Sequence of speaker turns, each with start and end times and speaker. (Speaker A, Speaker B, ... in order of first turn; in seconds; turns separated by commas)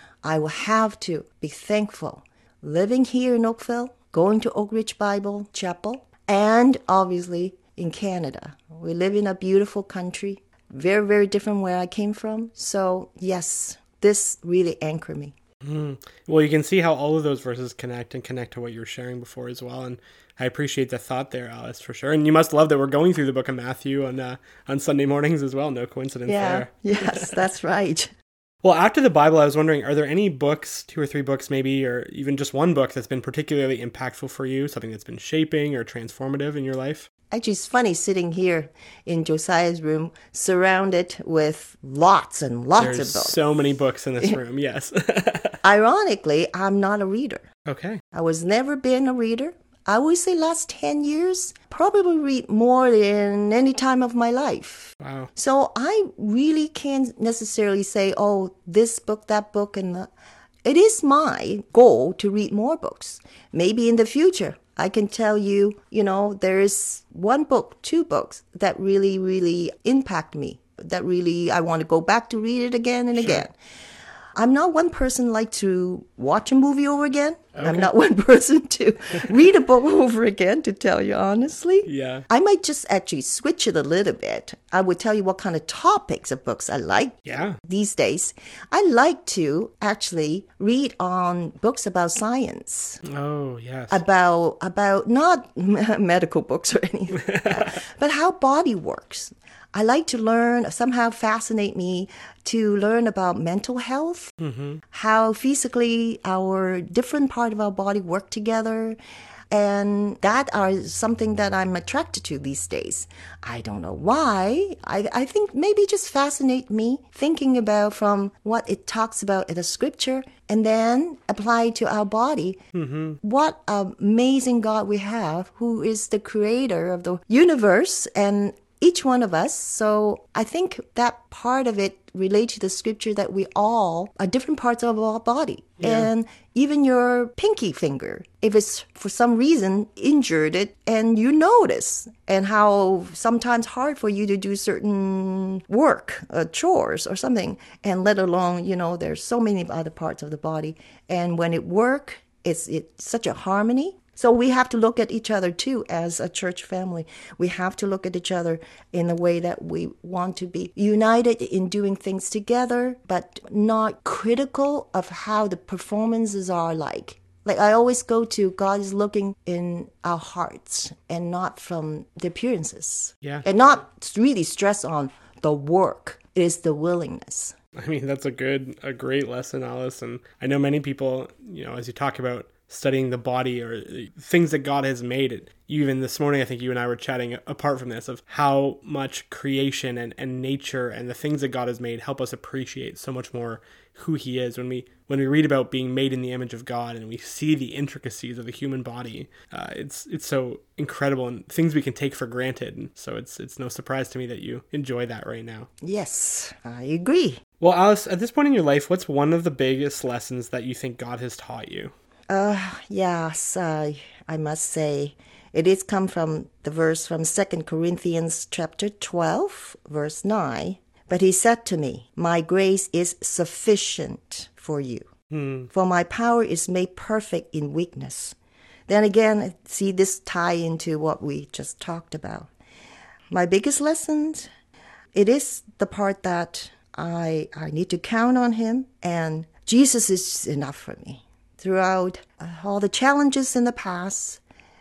Speaker A: 0.2-15.3, Speaker B: 15.6-27.4, Speaker A: 26.3-28.1, Speaker B: 28.6-37.1, Speaker A: 37.3-43.4, Speaker B: 42.8-45.6, Speaker A: 45.6-47.5, Speaker B: 47.6-48.0, Speaker A: 48.1-60.1, Speaker B: 55.0-55.3, Speaker A: 60.6-73.5, Speaker B: 73.2-73.4, Speaker A: 74.3-93.0, Speaker B: 77.6-77.9, Speaker B: 81.8-82.3, Speaker B: 87.2-87.6, Speaker B: 93.0-94.0, Speaker A: 93.9-104.3, Speaker B: 97.2-97.7, Speaker B: 104.4-104.8, Speaker A: 104.9-109.0, Speaker A: 109.5-122.6, Speaker B: 122.7-123.2, Speaker A: 123.2-177.5, Speaker B: 135.8-136.1, Speaker B: 177.8-205.7, Speaker A: 205.8-207.4, Speaker B: 207.6-211.9, Speaker A: 212.3-225.1, Speaker B: 225.3-225.7, Speaker A: 225.7-228.3, Speaker A: 228.9-232.5, Speaker A: 233.3-234.5, Speaker A: 235.1-244.4